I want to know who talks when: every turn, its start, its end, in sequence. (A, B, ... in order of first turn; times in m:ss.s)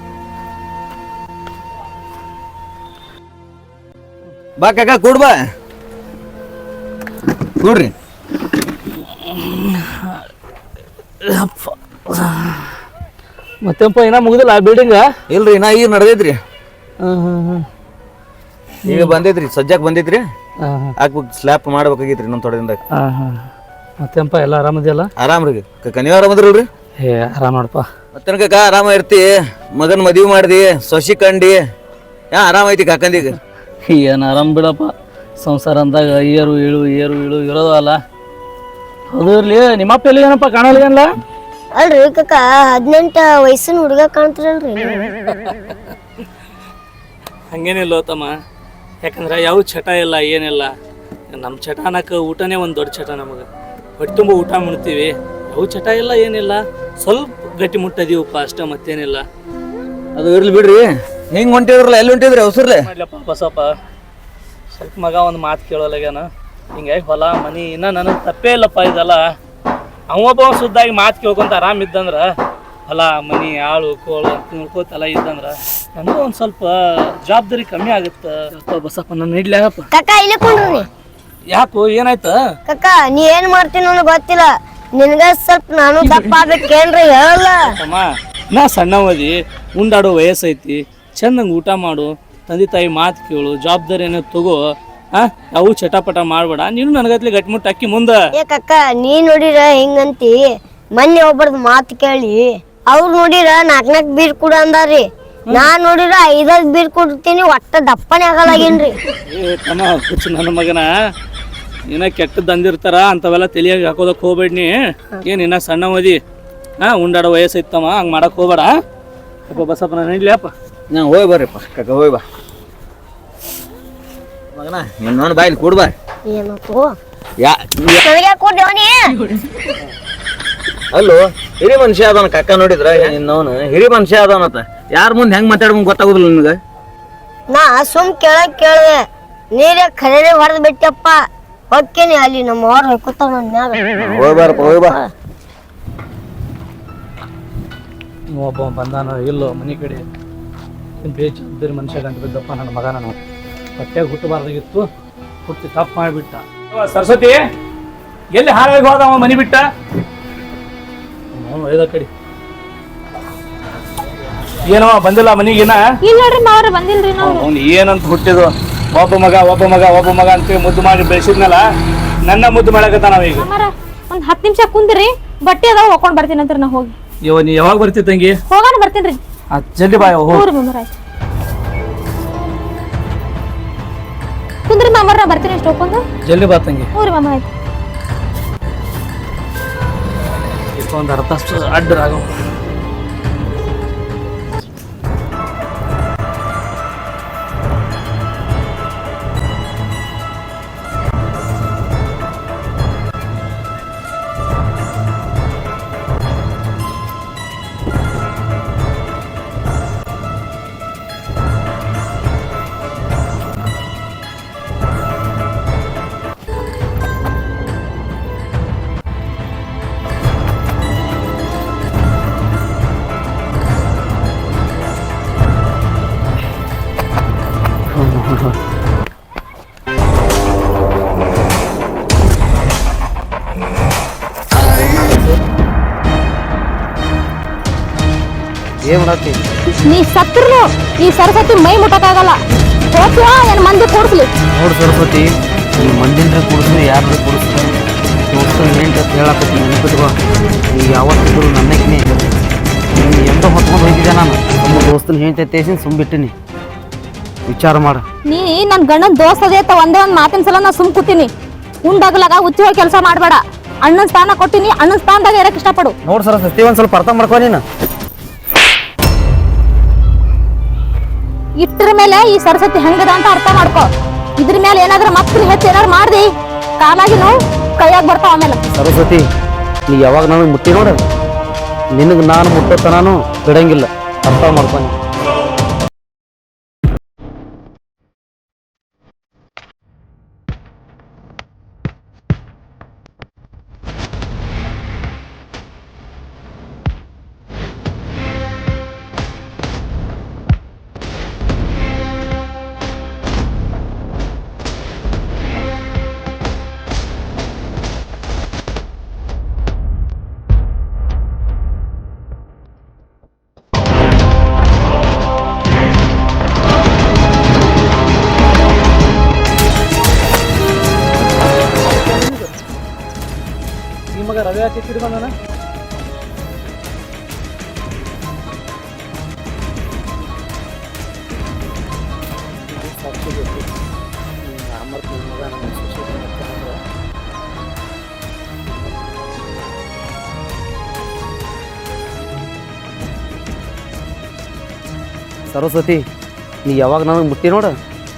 0:04.6-0:05.4 A
0:07.6-0:07.9 A
0:09.2-0:10.2 B
0:11.2-0:12.8 B
0:13.6-0:15.1 B
0:15.3-0:16.4 A
0:17.0-0:17.6 B
0:18.9-0:20.3 A
0:18.9-0:19.2 B
0:20.6-0:20.9 B
0:21.0-0:22.8 A
0:23.0-0:23.4 B
0:24.0-0:25.1 B
0:25.2-0:26.7 A
0:27.0-0:27.9 B
0:28.2-0:31.6 A
0:32.3-0:33.4 A
0:33.9-0:38.0 B
0:39.1-0:41.1 B
0:41.8-0:45.2 C
0:47.5-0:48.3 B
0:49.0-0:50.7 B
0:51.3-0:53.5 B
0:54.0-0:59.2 B
1:00.2-1:02.9 A
1:02.9-1:03.7 B
1:04.7-1:09.2 B
1:10.1-1:12.3 B
1:12.9-1:16.7 B
1:17.2-1:19.9 B
1:19.9-1:20.9 C
1:21.5-1:22.4 B
1:22.7-1:27.7 C
1:27.7-1:34.6 B
1:35.1-1:38.2 B
1:38.4-1:40.4 C
1:41.0-1:49.0 C
1:49.3-1:50.9 B
1:51.9-1:56.2 B
1:56.8-1:58.7 B
1:59.5-2:00.5 B
2:00.9-2:02.2 A
2:04.6-2:05.9 A
2:06.3-2:07.0 C
2:07.4-2:08.0 A
2:08.0-2:09.1 C
2:10.9-2:16.6 A
2:17.5-2:25.1 C
2:24.0-2:25.0 A
2:28.3-2:30.0 B
2:31.0-2:33.2 B
2:33.8-2:34.9 B
2:35.5-2:37.4 B
2:38.3-2:39.6 B
2:41.3-2:42.1 B
2:44.7-2:45.8 B
2:46.0-2:47.5 D
2:47.2-2:51.6 B
2:52.3-2:53.5 B
2:53.4-2:57.0 D
2:57.2-2:58.4 B
2:58.5-2:59.2 D
2:59.6-3:00.4 B
3:00.0-3:00.9 D
3:04.7-3:06.0 D
3:06.2-3:06.9 B
3:06.9-3:07.5 D
3:10.8-3:12.3 B
3:47.9-3:48.6 E
3:58.8-3:59.4 E
3:59.7-4:02.4 D
4:02.9-4:04.3 D
4:04.5-4:10.2 E
4:10.7-4:12.3 E
4:12.9-4:16.3 E
4:17.5-4:18.0 E
4:18.3-4:21.3 D
4:21.8-4:26.0 D
4:26.1-4:27.6 E
4:31.6-4:38.6 D
4:38.7-4:39.2 E
4:39.9-4:41.0 E
4:42.0-4:45.0 E
5:21.8-5:22.6 B
5:24.1-5:25.3 B
5:32.7-5:33.7 B
5:34.4-5:36.8 B
5:45.5-5:46.0 E
5:46.7-5:47.7 E